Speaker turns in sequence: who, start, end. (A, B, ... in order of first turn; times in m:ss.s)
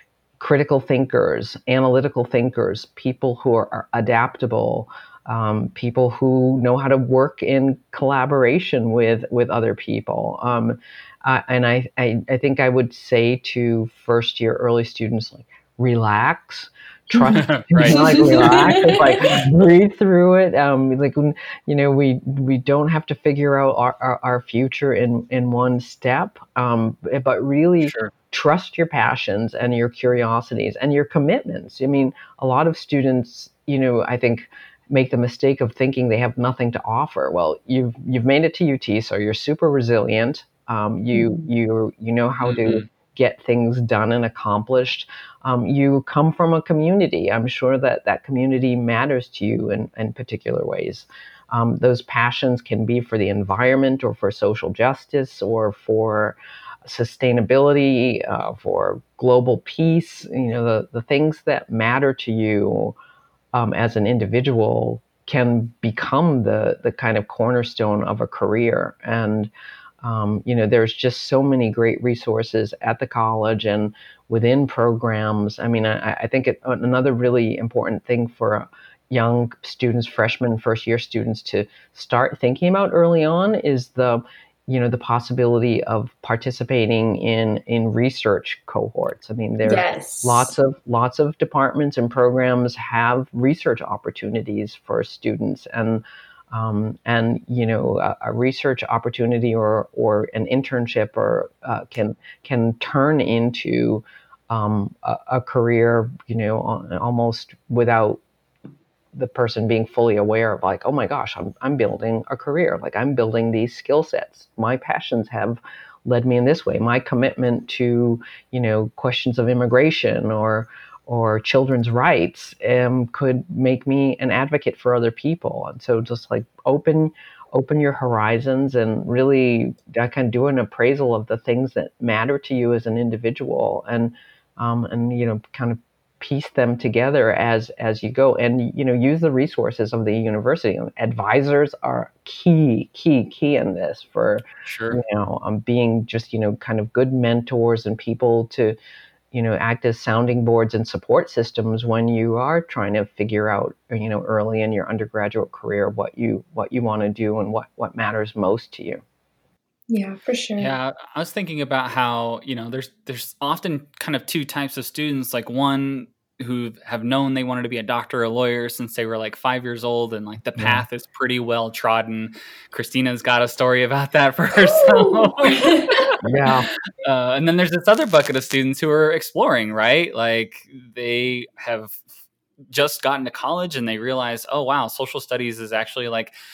0:00.4-1:03.0 A
0:17.1-0:19.4 B
0:17.3-0:18.8 C
0:27.8-0:28.1 C
0:41.1-0:41.5 B
0:42.4-0:42.8 C
1:03.5-1:48.2 A
1:29.6-1:30.5 B
1:49.1-2:28.8 A
2:24.6-2:25.0 C
2:29.3-2:39.0 A
2:39.9-2:40.7 B
2:40.6-2:56.2 C
2:50.6-2:50.8 A
2:54.6-2:56.1 B
2:56.2-2:56.7 A
2:57.0-3:02.0 C
3:02.7-3:06.3 C